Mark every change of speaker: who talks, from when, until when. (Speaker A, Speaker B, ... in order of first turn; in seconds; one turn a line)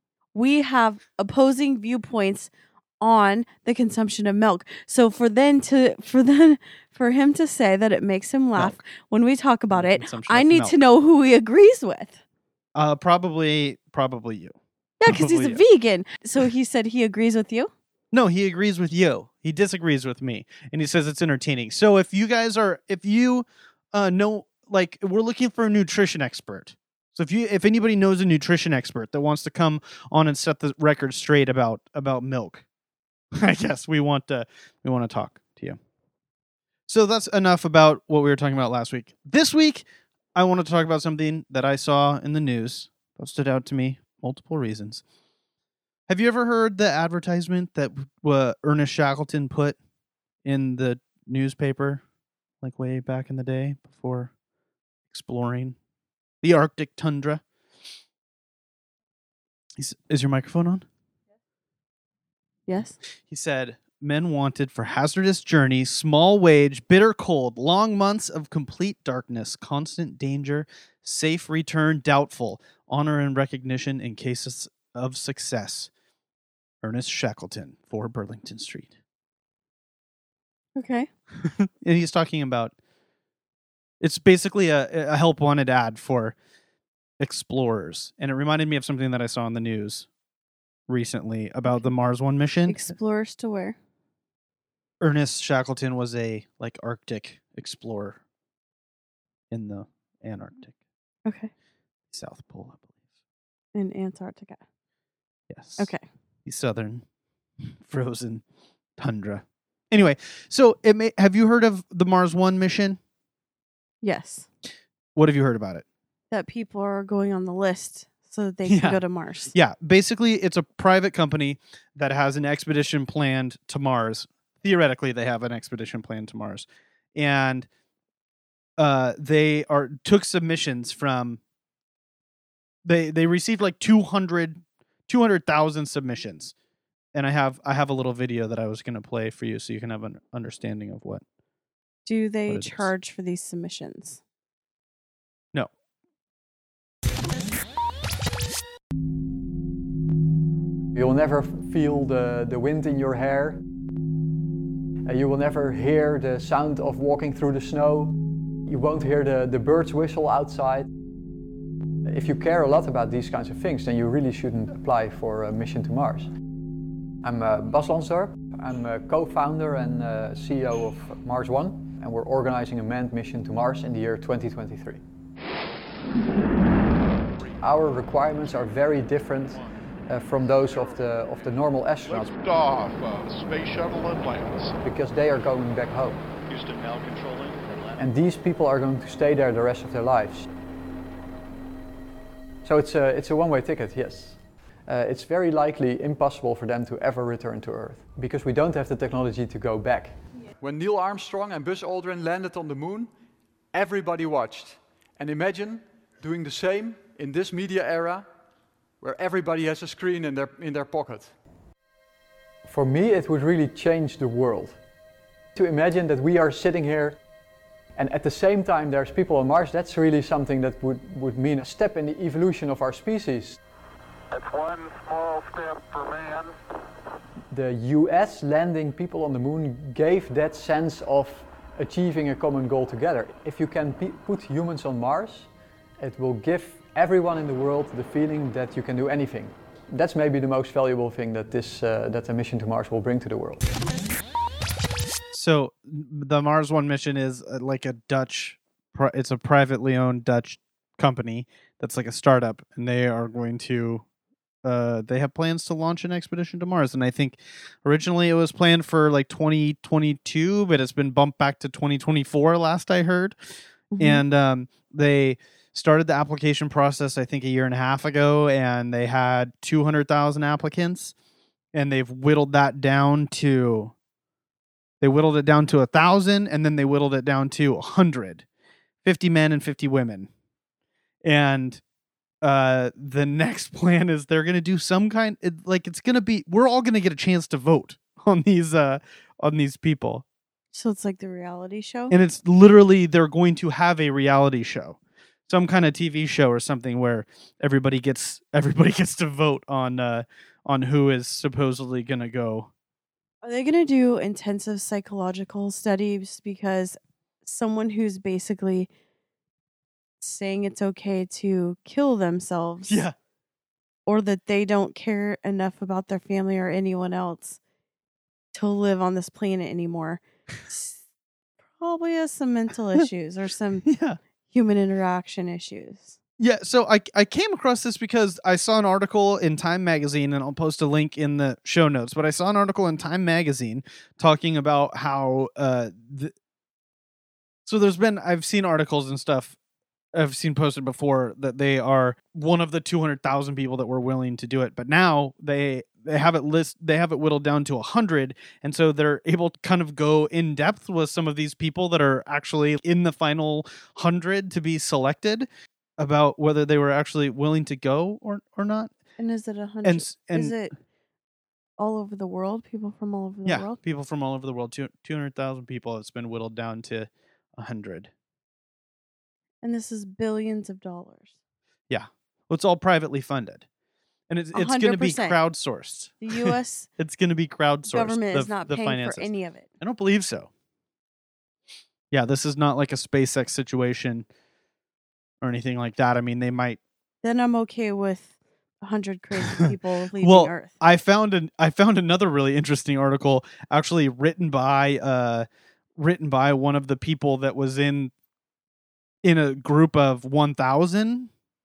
Speaker A: 0.3-12.2
Speaker B: 9.7-10.8
Speaker B: 12.8-15.6
Speaker A: 15.0-17.7
Speaker B: 18.1-32.6
Speaker B: 33.4-35.8
Speaker B: 36.9-45.0
Speaker B: 46.1-49.8
Speaker B: 50.5-52.0
Speaker B: 52.6-54.3
Speaker B: 55.1-55.8
Speaker B: 56.4-57.4
Speaker B: 59.8-60.8
Speaker A: 62.7-63.0
Speaker B: 63.3-75.9
Speaker B: 76.8-78.9
Speaker A: 80.8-81.1
Speaker B: 81.4-82.7
Speaker B: 84.0-86.4
Speaker B: 87.2-90.1
Speaker B: 90.9-92.9
Speaker A: 91.7-91.9
Speaker A: 92.7-93.8
Speaker B: 95.0-98.2
Speaker B: 99.5-100.8
Speaker A: 101.3-101.5
Speaker B: 102.1-102.9
Speaker A: 103.8-104.6
Speaker B: 105.5-105.9
Speaker A: 105.8-106.0
Speaker B: 106.5-107.0
Speaker B: 107.8-108.4
Speaker B: 109.0-113.0
Speaker A: 114.0-114.5
Speaker B: 115.2-115.8
Speaker A: 116.3-119.5
Speaker B: 118.7-119.0
Speaker B: 119.5-127.7
Speaker B: 128.8-131.4
Speaker B: 132.8-136.5
Speaker B: 137.1-141.2
Speaker A: 142.1-144.2
Speaker B: 142.5-142.9
Speaker C: 150.9-153.6
Speaker C: 155.1-160.9
Speaker C: 162.1-166.3
Speaker C: 167.2-175.0
Speaker D: 177.2-177.6
Speaker C: 177.6-182.3
Speaker D: 179.5-179.7
Speaker D: 180.4-181.5
Speaker D: 182.1-184.8
Speaker C: 184.8-186.2
Speaker D: 186.5-188.1
Speaker C: 188.0-190.5
Speaker C: 192.6-203.1
Speaker C: 203.7-208.3
Speaker C: 209.0-211.3
Speaker C: 212.7-214.8
Speaker C: 215.6-217.2
Speaker C: 218.0-223.6
Speaker E: 224.3-226.5
Speaker C: 227.5-243.7
Speaker B: 245.3-254.0
Speaker B: 254.6-263.4
Speaker A: 263.9-264.2
Speaker B: 264.0-271.1
Speaker B: 271.7-273.9
Speaker B: 275.0-278.4
Speaker B: 279.0-280.3
Speaker B: 281.2-281.8
Speaker B: 282.4-290.2
Speaker A: 290.7-292.1
Speaker B: 292.1-302.7
Speaker A: 303.4-308.9
Speaker A: 310.2-313.0
Speaker B: 312.9-313.1
Speaker A: 314.1-317.6
Speaker A: 318.5-321.0
Speaker A: 321.8-323.9
Speaker B: 323.9-324.2
Speaker A: 324.5-326.2
Speaker B: 326.4-336.3
Speaker B: 337.7-339.6
Speaker B: 340.1-355.5
Speaker B: 356.0-358.9
Speaker A: 359.2-360.7
Speaker B: 359.9-360.6
Speaker A: 361.8-363.8
Speaker B: 363.5-368.1
Speaker A: 369.6-371.3
Speaker B: 371.9-373.6
Speaker B: 374.3-379.3
Speaker A: 374.5-375.4
Speaker A: 376.2-376.9
Speaker A: 377.9-379.7
Speaker B: 379.8-380.5
Speaker B: 382.1-384.3
Speaker B: 385.4-386.8
Speaker A: 387.2-388.3
Speaker A: 388.8-390.7
Speaker B: 389.4-395.5
Speaker B: 396.0-398.1
Speaker B: 399.2-401.3